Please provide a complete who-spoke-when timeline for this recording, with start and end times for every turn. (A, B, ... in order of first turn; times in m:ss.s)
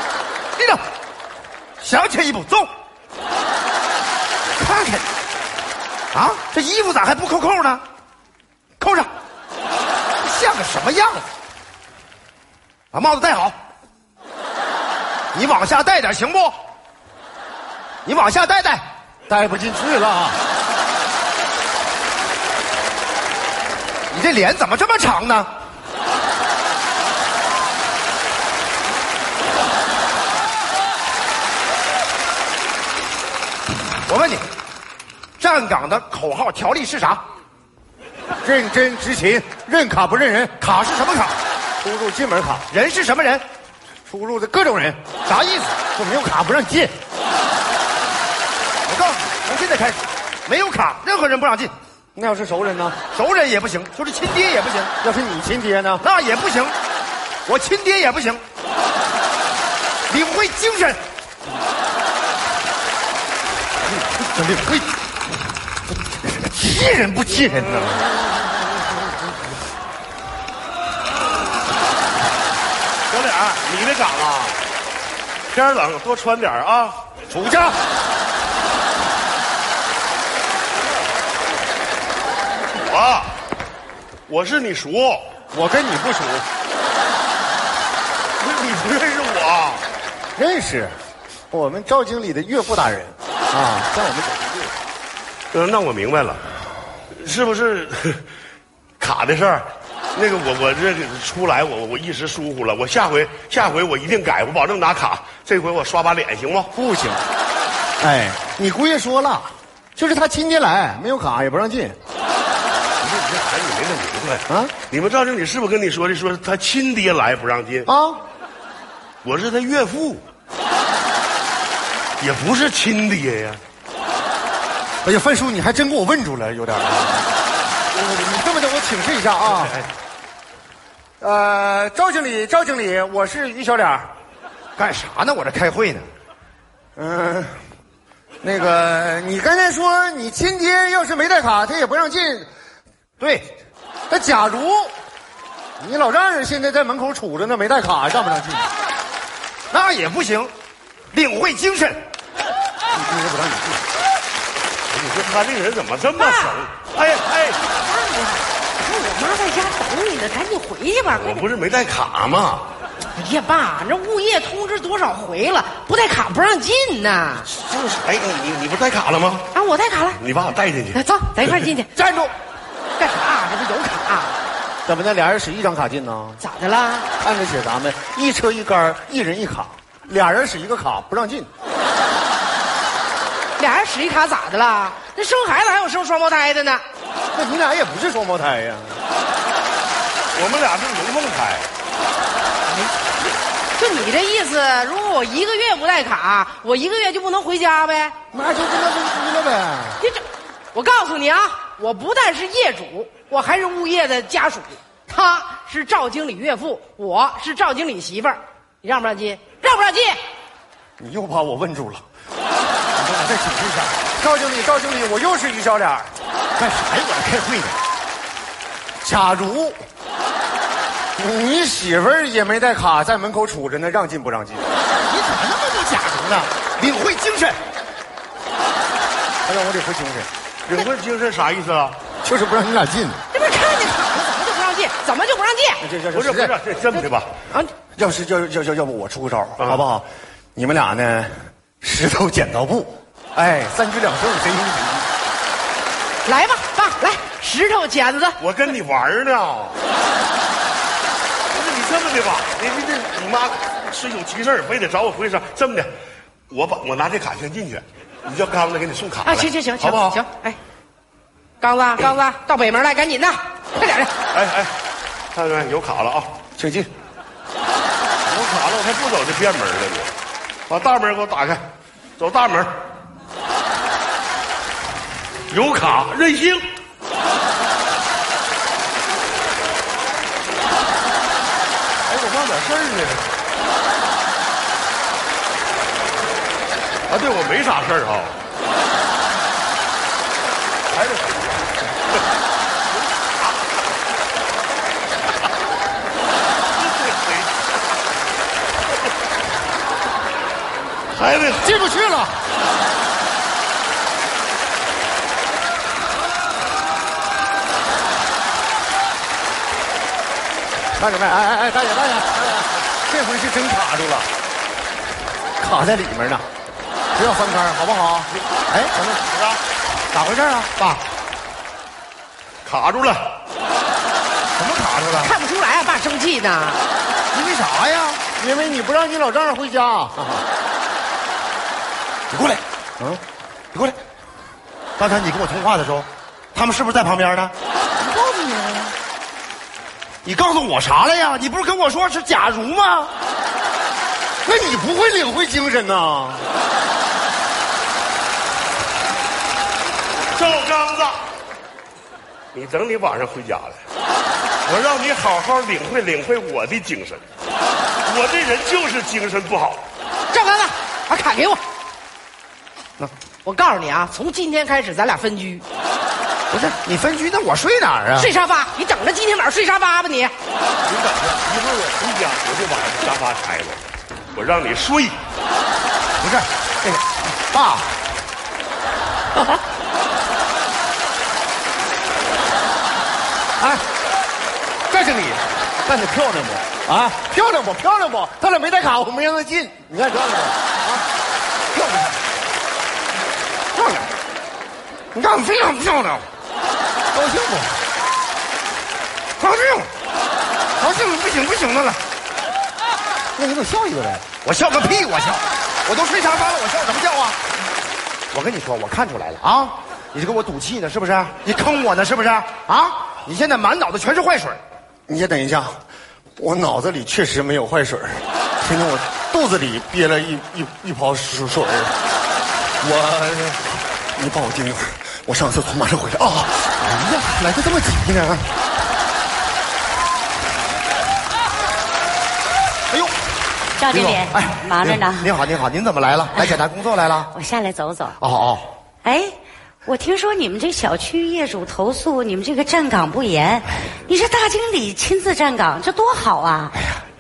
0:00.6-0:00.8 A
0:01.8-0:02.7 A
0:04.6-0:05.0 A
0:06.1-0:07.8 A
0:08.8-0:09.1 A
0:10.2-0:11.3 A
0:12.9-0:13.6 A
0:15.3-0:16.6 A
0:18.0-0:18.8 A
0:19.3-0:20.4 B
0:24.1-0:25.5 A
0:34.1-0:34.4 A
0:35.4-0:37.2 A
0:38.4-0:40.6 B
0:40.6-0:41.4 A
0:41.8-0:42.6 B
0:42.7-0:43.4 A
0:44.1-0:45.0 B
0:45.2-0:45.8 A
0:45.9-0:46.9 B
0:48.9-0:51.7 A
0:52.1-0:53.0 B
0:53.1-0:55.0 A
0:55.0-0:56.0 B
0:56.0-0:56.8 A
0:57.4-0:58.4 A
1:00.1-1:01.0 A
1:04.1-1:04.9 B
1:05.9-1:08.0 B
1:13.1-1:14.6 C
1:15.5-1:17.1 C
1:17.3-1:17.8 B
1:22.8-1:23.4 C
1:24.3-1:25.2 C
1:25.5-1:26.4 B
1:28.4-1:29.8 C
1:30.4-1:31.0 B
1:31.5-1:34.8 B
1:35.5-1:36.4 C
1:37.1-1:38.2 C
1:39.0-1:46.7 C
1:46.7-1:47.2 B
1:48.0-1:52.0 B
1:53.0-1:57.9 C
1:54.5-1:54.8 B
1:57.9-1:58.2 B
1:59.2-2:00.2 C
2:02.2-2:03.6 C
2:05.0-2:07.4 B
2:07.9-2:09.8 B
2:11.2-2:14.1 B
2:14.8-2:16.1 A
2:17.0-2:17.6 B
2:18.4-2:22.5 B
2:23.2-2:23.5 A
2:24.1-2:25.0 B
2:25.8-2:28.7 B
2:29.7-2:30.5 A
2:31.1-2:32.0 A
2:32.9-2:33.8 B
2:34.9-2:37.6 C
2:36.2-2:36.6 D
2:37.7-2:41.4 D
2:41.1-2:42.7 C
2:43.1-2:47.5 D
2:47.4-2:49.5 C
2:49.5-2:50.2 D
2:50.1-2:51.5 C
2:50.9-2:51.9 D
2:52.0-2:52.3 B
2:53.0-2:54.4 D
2:54.8-2:56.4 B
2:56.5-2:57.1 D
2:57.2-3:01.5 B
3:03.6-3:06.8 D
3:07.3-3:09.0 B
3:10.4-3:11.7 C
3:12.7-3:18.1 D
3:18.3-3:20.0 B
3:20.7-3:30.2 D
3:31.0-3:32.0 B
3:32.9-3:36.1 B
3:36.6-3:37.8 A
3:39.0-3:39.8 B
3:41.2-3:44.7 B
3:45.1-3:47.6 A
3:49.4-3:50.3 B
3:50.7-3:52.0 C
3:52.2-3:53.2 B
3:53.3-3:55.8 D
3:55.8-3:56.6 B
3:56.1-3:57.3 C
3:58.0-4:05.1 B
4:06.2-4:08.4 D
4:08.4-4:09.8 C
4:11.5-4:15.9 C
4:16.5-4:20.2 C
4:19.2-4:20.6 D
4:21.6-4:24.1 D
4:24.3-4:24.7 C
4:25.3-4:26.4 C
4:26.6-4:26.9 B
4:28.2-4:30.1 C
4:30.7-4:31.7 C
4:32.2-4:32.7 C
4:35.5-4:36.6 C
4:42.1-4:43.3 C
4:47.1-4:48.4 C
4:50.9-4:51.7 C
4:56.8-4:57.5 C
5:01.2-5:02.4 B
5:11.0-5:14.3 B
5:15.6-5:16.4 B
5:17.1-5:19.6 B
5:20.1-5:21.0 A
5:22.6-5:23.3 C
5:24.6-5:25.4 A
5:25.2-5:26.8 D
5:27.3-5:28.2 A
5:28.4-5:30.4 B
5:32.3-5:32.6 A
5:33.7-5:34.0 A
5:35.0-5:37.5 A
5:38.0-5:38.9 B
5:40.2-5:43.1 A
5:44.4-5:46.4 B
5:50.3-5:51.2 C
5:52.5-5:53.8 C
5:54.6-5:57.2 C
5:58.0-5:59.9 C
6:00.3-6:01.6 D
6:03.4-6:05.6 D
6:06.5-6:08.3 A
6:08.2-6:10.3 D
6:10.8-6:13.8 C
6:14.3-6:15.2 C
6:16.2-6:17.9 A
6:23.6-6:23.8 B
6:24.9-6:31.0 B
6:31.8-6:32.1 B
6:33.8-6:34.0 A
6:35.1-6:36.2 A
6:37.1-6:37.8 B
6:39.4-6:39.9 A
6:40.8-6:42.0 A
6:43.4-6:44.2 B
6:44.4-6:47.4 A
6:48.3-6:54.6 A
6:55.1-6:55.8 B
6:56.4-7:02.0 B
7:02.8-7:08.5 B
7:12.9-7:13.1 A
7:13.8-7:15.3 E
7:13.9-7:17.3 A
7:17.3-7:18.2 E
7:18.2-7:18.7 A
7:19.0-7:26.7 E
7:26.7-7:27.0 A